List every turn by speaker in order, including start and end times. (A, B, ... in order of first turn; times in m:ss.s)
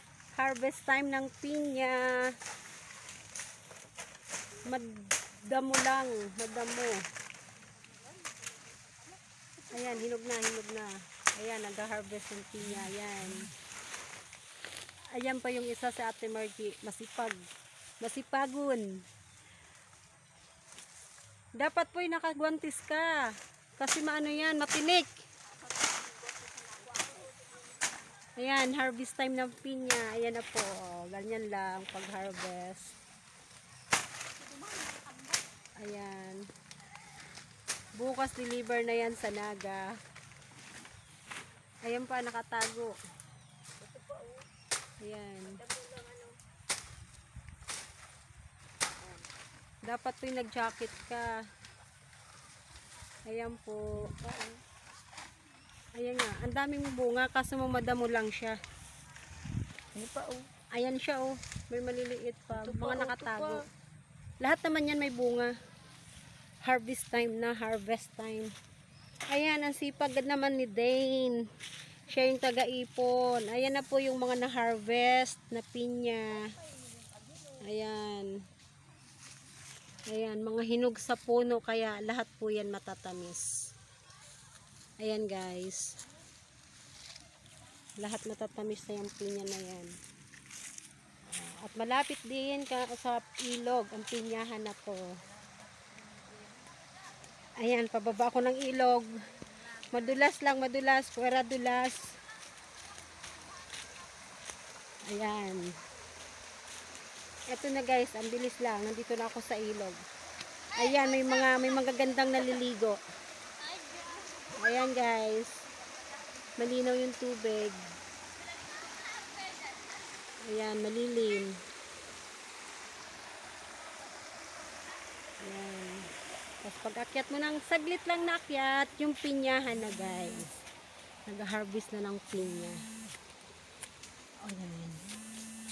0:00.4-0:02.3 A
0:04.6-0:07.0 A
0:07.9-0:09.2 B
0:09.7-0:13.4 A
0:15.2-0:17.4 A
0:18.0-0:19.0 A
0:21.6-0:23.3 A
0:23.8-0:25.1 A
0:25.6-0:27.9 B
0:28.4-0:32.9 A
0:34.4-0:35.4 B
0:35.8-0:36.4 A
0:38.0-0:39.9 A
0:41.8-0:43.0 A
0:43.8-0:44.5 B
0:45.0-0:45.6 A
0:45.5-0:46.4 B
0:49.9-0:51.4 A
0:53.3-0:54.6 A
0:56.0-0:58.6 A
1:00.0-1:00.5 B
1:00.7-1:03.6 A
1:02.5-1:03.6 B
1:04.4-1:05.5 A
1:06.6-1:08.5 A
1:09.3-1:11.4 A
1:12.1-1:16.5 A
1:16.6-1:17.6 B
1:17.6-1:18.4 A
1:20.1-1:23.5 A
1:25.0-1:25.9 A
1:28.0-1:29.9 A
1:31.3-1:35.0 A
1:37.6-1:39.1 A
1:39.8-1:42.1 A
1:45.1-1:45.7 A
1:47.5-1:50.0 A
1:50.7-1:53.0 A
1:53.7-1:54.4 B
1:54.5-1:55.6 A
1:56.6-1:57.8 A
1:59.0-1:59.8 B
2:00.4-2:01.6 A
2:05.4-2:06.1 A
2:06.6-2:10.5 A
2:11.3-2:12.8 A
2:14.4-2:15.0 A